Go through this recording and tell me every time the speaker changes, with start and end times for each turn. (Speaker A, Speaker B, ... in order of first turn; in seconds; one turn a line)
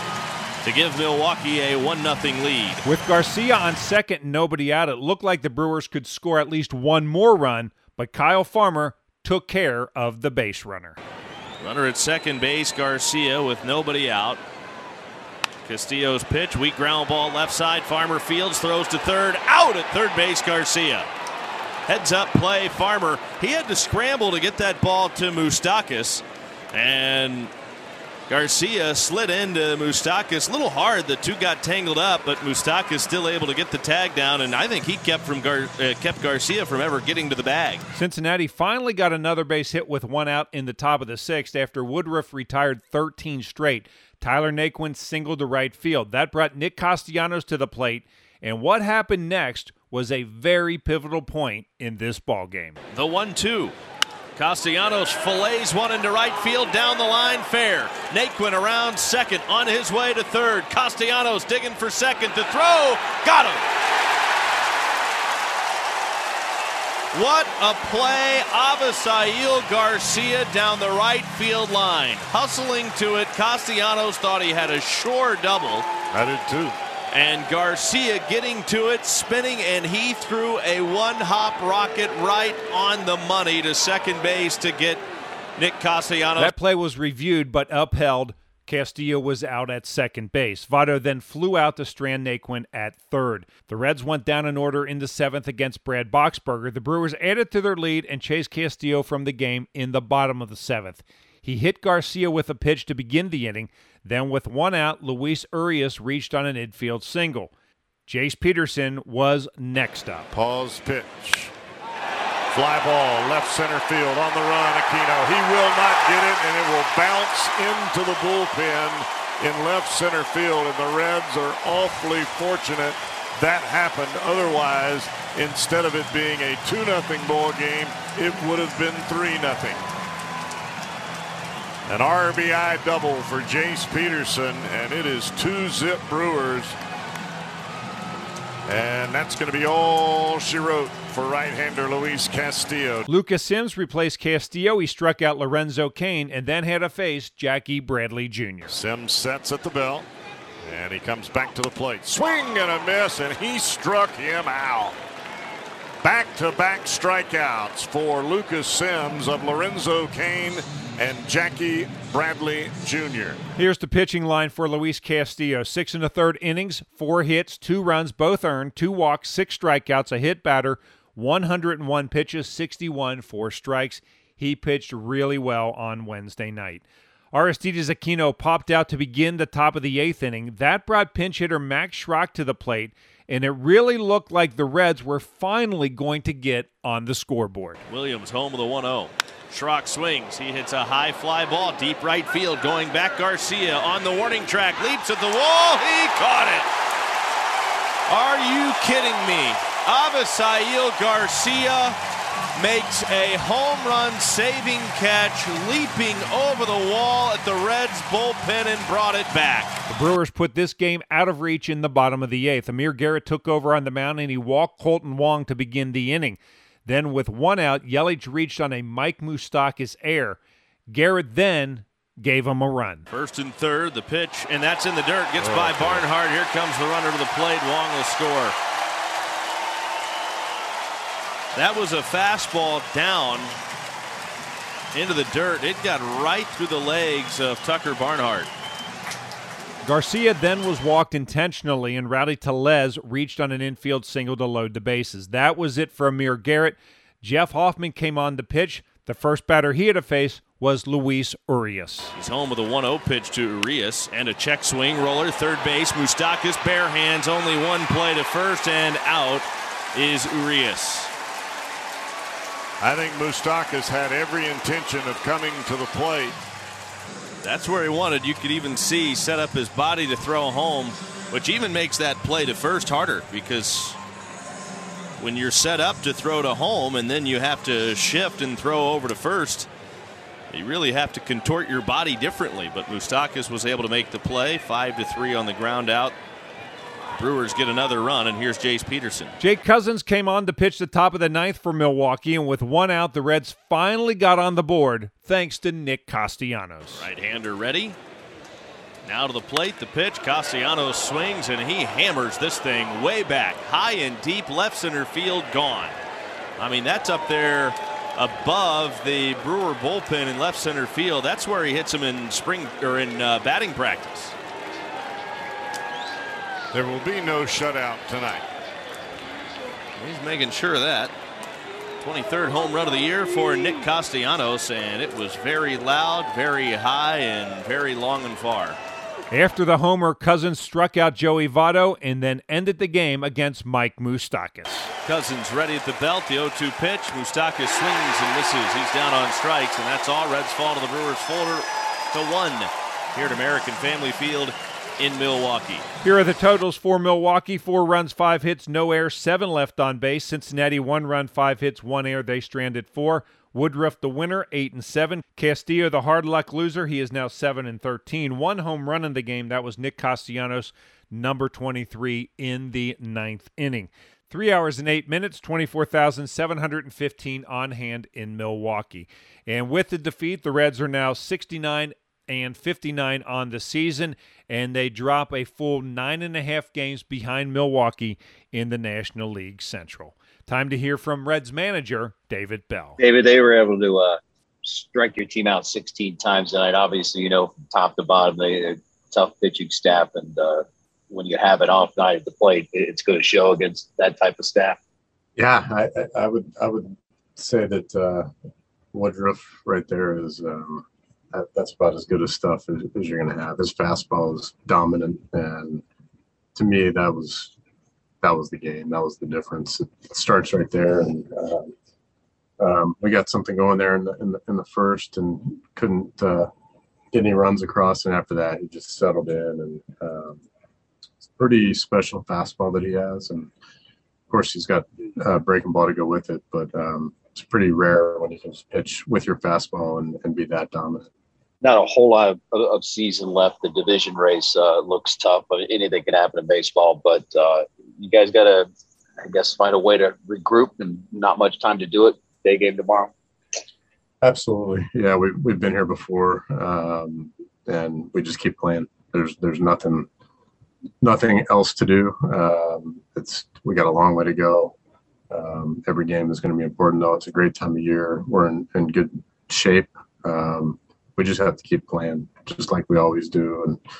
Speaker A: 0.6-2.8
Speaker B: 2.8-11.0
Speaker A: 11.6-14.4
Speaker A: 15.6-21.1
Speaker A: 21.9-27.5
Speaker A: 28.3-37.9
Speaker B: 37.9-52.8
Speaker A: 52.9-53.8
Speaker A: 54.4-63.7
Speaker A: 67.1-75.9
Speaker C: 76.1-76.8
Speaker A: 77.1-85.0
Speaker A: 85.6-86.5
Speaker B: 86.4-107.5
Speaker B: 108.0-110.3
Speaker C: 110.3-111.5
Speaker C: 112.5-129.8
Speaker C: 131.8-136.8
Speaker C: 138.7-143.1
Speaker B: 143.1-148.7
Speaker C: 148.7-150.1
Speaker C: 150.6-155.0
Speaker C: 156.0-163.4
Speaker B: 163.6-187.8
Speaker A: 187.9-196.7
Speaker A: 198.1-202.0
Speaker A: 202.6-209.8
Speaker B: 209.9-223.1
Speaker A: 223.1-228.5
Speaker C: 225.4-226.0
Speaker A: 231.5-233.6
Speaker A: 234.9-238.5
Speaker B: 239.8-252.1
Speaker A: 252.1-261.1
Speaker C: 262.8-266.4
Speaker A: 267.4-274.0
Speaker A: 275.2-279.7
Speaker A: 280.5-286.1
Speaker A: 287.1-289.4
Speaker B: 289.4-297.0
Speaker A: 296.9-298.0
Speaker A: 299.0-306.0
Speaker A: 306.6-314.4
Speaker C: 316.7-318.4
Speaker A: 319.9-321.1
Speaker A: 322.0-328.8
Speaker B: 329.3-334.9
Speaker A: 335.0-345.9
Speaker B: 346.0-383.0
Speaker D: 383.0-394.8
Speaker E: 395.4-398.3
Speaker E: 398.9-405.8
Speaker E: 406.5-407.5
Speaker E: 408.2-411.7
Speaker E: 412.6-416.5
Speaker E: 417.1-420.4
Speaker E: 421.2-423.5
Speaker E: 424.3-431.1
Speaker D: 431.6-438.7
Speaker D: 439.2-443.1
Speaker E: 444.2-450.1
Speaker E: 451.0-454.7
Speaker E: 455.3-463.8